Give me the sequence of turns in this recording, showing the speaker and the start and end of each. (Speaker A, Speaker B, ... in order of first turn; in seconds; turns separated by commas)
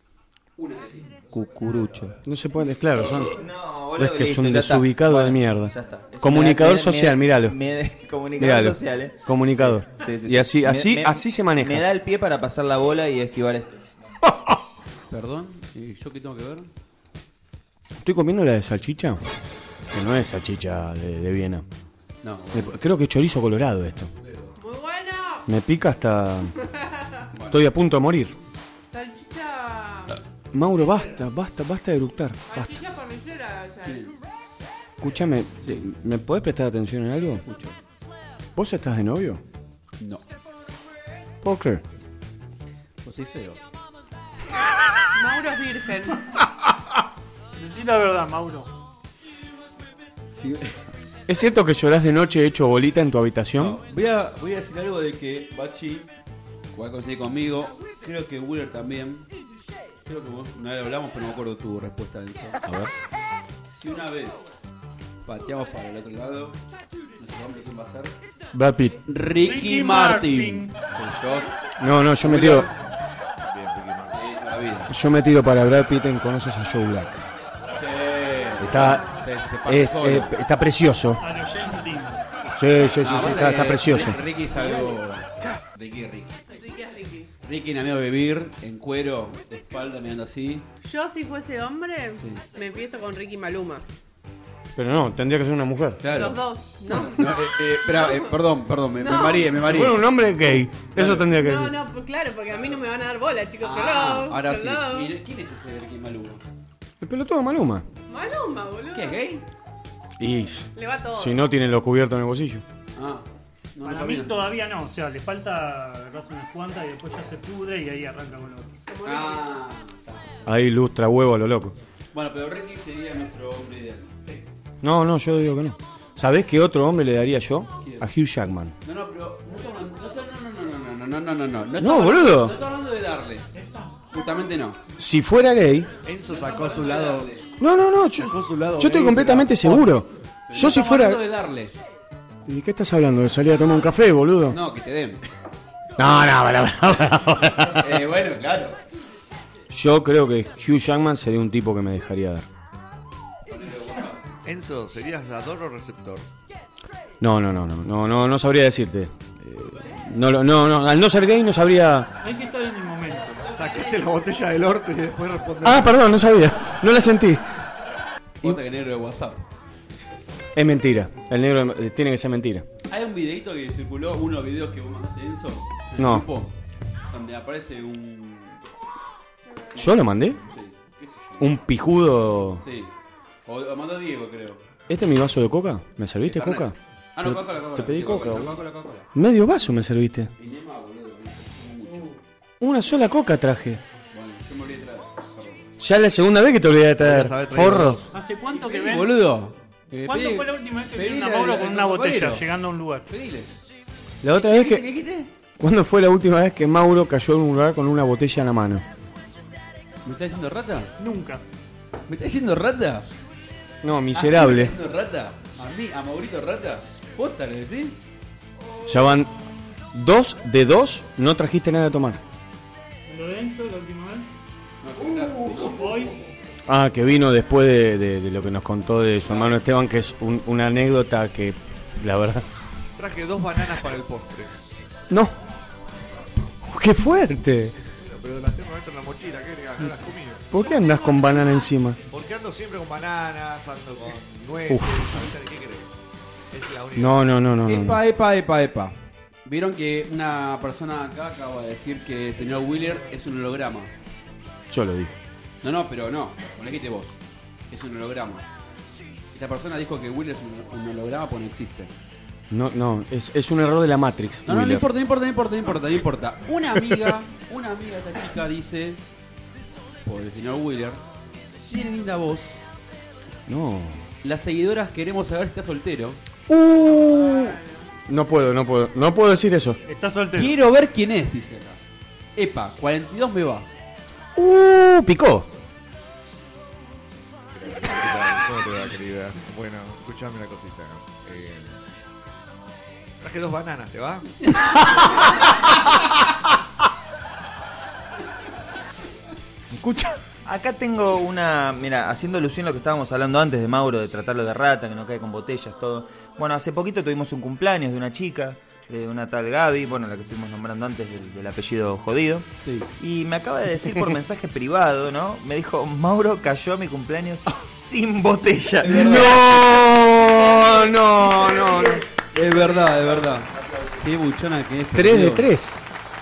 Speaker A: 0.6-1.2, Speaker B: 1.3-2.2, Speaker C: 2.2-3.4, Speaker B: 3.1-14.2, Speaker C: 4.0-7.6, Speaker C: 8.4-11.8, Speaker A: 15.1-16.7, Speaker C: 18.0-19.2, Speaker C: 19.9-21.6, Speaker A: 22.2-22.8, Speaker C: 22.5-24.1, Speaker D: 24.2-24.5, Speaker E: 24.6-25.5, Speaker C: 25.5-26.5, Speaker E: 26.8-27.1, Speaker A: 27.3-27.6, Speaker C: 27.5-28.4, Speaker E: 28.9-30.2, Speaker C: 30.5-32.7, Speaker E: 32.5-34.1, Speaker A: 33.9-34.1, Speaker C: 35.0-37.4, Speaker A: 37.4-37.8, Speaker C: 38.6-39.4, Speaker C: 41.4-41.8, Speaker A: 43.0-43.6, Speaker E: 45.1-46.2, Speaker F: 47.6-48.7, Speaker A: 50.4-50.7, Speaker C: 51.3-53.8, Speaker A: 53.6-56.1, Speaker A: 56.7-59.3, Speaker A: 60.0-62.6, Speaker C: 62.6-62.9, Speaker A: 63.6-64.6, Speaker A: 65.2-66.6, Speaker A: 67.2-68.1, Speaker C: 68.5-69.0, Speaker A: 69.1-71.6, Speaker F: 69.4-70.8, Speaker C: 71.8-72.7, Speaker A: 72.2-72.7, Speaker D: 73.4-74.2, Speaker A: 74.1-74.9, Speaker C: 74.9-77.2, Speaker A: 77.7-80.3, Speaker C: 78.6-79.1, Speaker E: 78.7-79.3, Speaker C: 79.7-81.2, Speaker F: 81.2-82.2, Speaker C: 82.6-84.2, Speaker A: 83.0-86.4, Speaker E: 86.5-87.3, Speaker A: 87.4-90.7, Speaker E: 90.8-93.8, Speaker C: 94.8-96.0, Speaker A: 96.0-100.1, Speaker E: 96.1-98.3, Speaker E: 99.0-99.5, Speaker C: 99.6-101.7, Speaker A: 100.9-101.3, Speaker E: 101.3-105.1, Speaker A: 103.6-106.4, Speaker C: 107.0-107.8, Speaker E: 108.1-109.4, Speaker A: 108.9-109.4, Speaker C: 110.2-112.6, Speaker E: 110.7-111.4, Speaker A: 113.0-114.4, Speaker F: 113.8-118.7, Speaker E: 118.9-119.5, Speaker A: 119.0-120.2, Speaker C: 120.5-121.7, Speaker A: 122.1-124.2, Speaker C: 124.8-128.7, Speaker A: 127.8-128.1, Speaker A: 128.8-133.5, Speaker C: 131.8-132.6, Speaker F: 133.6-133.9, Speaker A: 134.1-134.8, Speaker C: 135.0-135.9, Speaker D: 136.0-137.4, Speaker A: 136.2-137.5, Speaker C: 137.6-141.2, Speaker D: 138.1-139.6, Speaker A: 139.6-139.9, Speaker A: 140.5-141.7, Speaker C: 142.4-144.6, Speaker A: 144.5-145.2, Speaker C: 146.0-147.8, Speaker A: 146.9-148.8, Speaker C: 149.7-152.5, Speaker A: 153.5-154.2, Speaker D: 154.4-156.3, Speaker C: 157.2-162.1, Speaker F: 162.2-163.4, Speaker E: 163.4-164.3, Speaker D: 163.4-166.1, Speaker C: 165.6-167.4, Speaker A: 168.4-169.4, Speaker C: 170.6-172.6, Speaker A: 172.9-176.5, Speaker C: 176.0-176.3, Speaker A: 177.1-178.6, Speaker C: 179.8-180.4, Speaker A: 180.5-181.6, Speaker C: 181.4-182.6, Speaker A: 182.6-182.9, Speaker A: 183.4-184.6, Speaker C: 184.9-188.6, Speaker A: 186.2-189.1, Speaker C: 189.1-190.3, Speaker A: 190.4-192.2, Speaker C: 192.6-193.8, Speaker A: 194.1-195.7, Speaker C: 195.8-198.1, Speaker D: 197.0-198.1, Speaker F: 198.1-199.2, Speaker A: 198.5-202.4, Speaker F: 200.1-203.1, Speaker A: 203.1-203.5, Speaker C: 204.2-204.8, Speaker A: 204.3-205.3, Speaker C: 205.6-208.8, Speaker A: 210.1-210.9, Speaker F: 211.0-211.4, Speaker A: 212.1-213.1, Speaker C: 213.8-214.7, Speaker A: 214.1-217.9, Speaker C: 218.8-219.3, Speaker C: 219.9-222.2, Speaker F: 223.1-224.3, Speaker A: 224.8-225.8, Speaker F: 225.7-226.1, Speaker C: 226.7-232.4, Speaker A: 229.3-229.6, Speaker D: 232.9-234.5, Speaker C: 236.6-237.8, Speaker D: 238.0-240.4, Speaker C: 240.5-242.0, Speaker D: 242.1-245.9, Speaker C: 244.7-245.3, Speaker D: 246.5-247.4, Speaker C: 246.9-248.0, Speaker A: 247.6-253.9, Speaker C: 254.7-255.2, Speaker A: 255.6-257.1, Speaker A: 257.7-258.5, Speaker A: 259.3-261.9, Speaker C: 262.5-264.8, Speaker A: 264.4-269.0, Speaker A: 270.1-271.0, Speaker A: 271.7-272.6, Speaker C: 273.5-274.1, Speaker A: 274.2-276.2, Speaker C: 276.5-277.6, Speaker E: 277.1-277.9, Speaker C: 278.1-279.8, Speaker F: 279.9-280.6, Speaker A: 280.4-281.8, Speaker A: 282.4-283.7, Speaker C: 284.4-285.5, Speaker D: 287.5-291.8, Speaker D: 293.2-294.3, Speaker A: 294.8-295.3, Speaker C: 299.7-300.2, Speaker B: 300.4-319.8, Speaker A: 312.6-312.9, Speaker C: 318.9-322.0, Speaker B: 321.5-321.9, Speaker A: 322.3-325.5, Speaker D: 322.9-323.3, Speaker C: 324.9-325.8